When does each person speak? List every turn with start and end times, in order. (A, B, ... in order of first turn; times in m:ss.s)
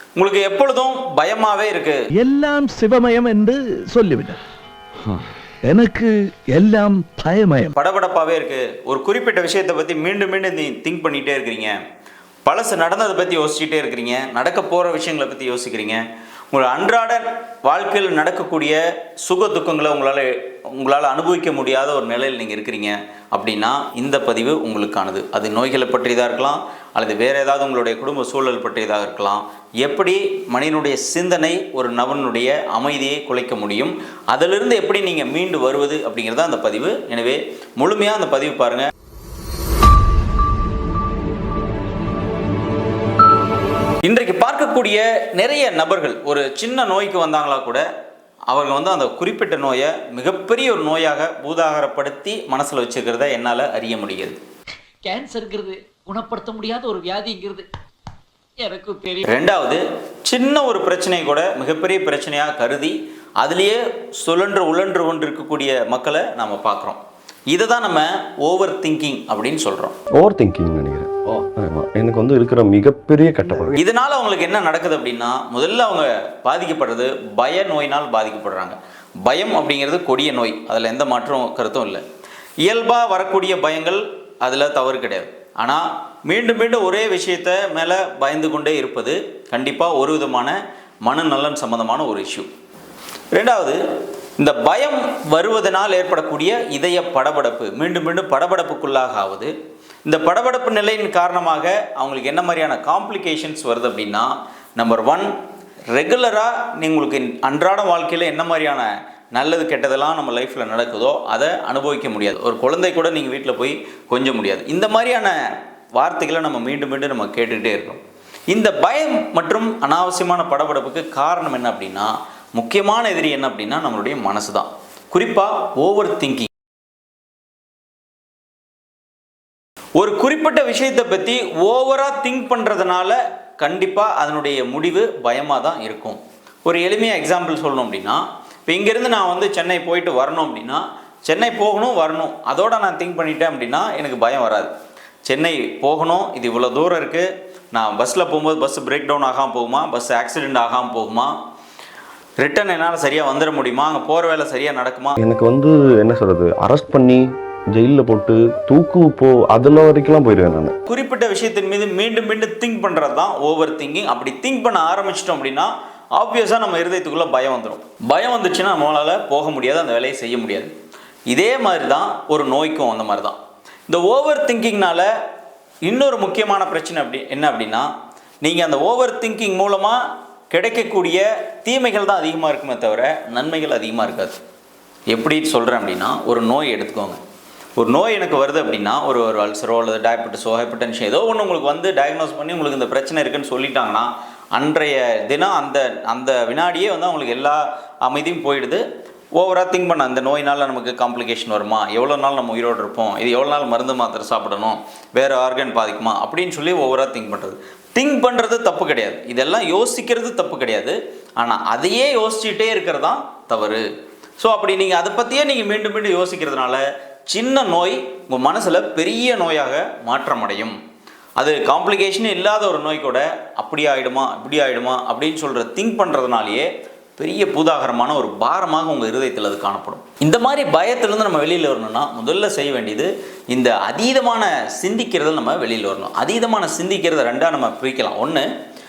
0:00.2-0:02.0 A
0:02.2-0:04.4 B
0:05.7-0:07.7 B
0:07.8-0:11.8 A
0:12.4-0:38.9 A
0:44.0-0:47.8 A
0:48.5-0:54.4 A
0:55.0-0:57.7 C
0:58.6-0:59.3 C
0:59.2-1:09.9 A
1:10.2-1:13.8 D
1:13.8-1:22.0 A
1:22.6-1:32.5 A
1:33.3-1:33.8 A
1:34.4-1:39.5 A
1:40.0-1:45.3 A
1:45.9-1:55.3 A
1:56.0-2:06.5 A
2:10.0-2:24.7 A
2:25.3-2:31.3 A
2:32.4-2:35.2 A
2:35.2-2:40.7 D
2:40.9-2:50.7 A
2:51.3-2:53.4 A
2:53.9-2:55.1 A
2:55.8-2:57.9 A
2:58.4-3:00.0 A
3:00.5-3:04.4 A
3:05.1-3:07.2 A
3:07.8-3:18.8 A
3:19.4-3:33.8 A
3:34.4-3:40.8 A
3:41.4-3:58.5 A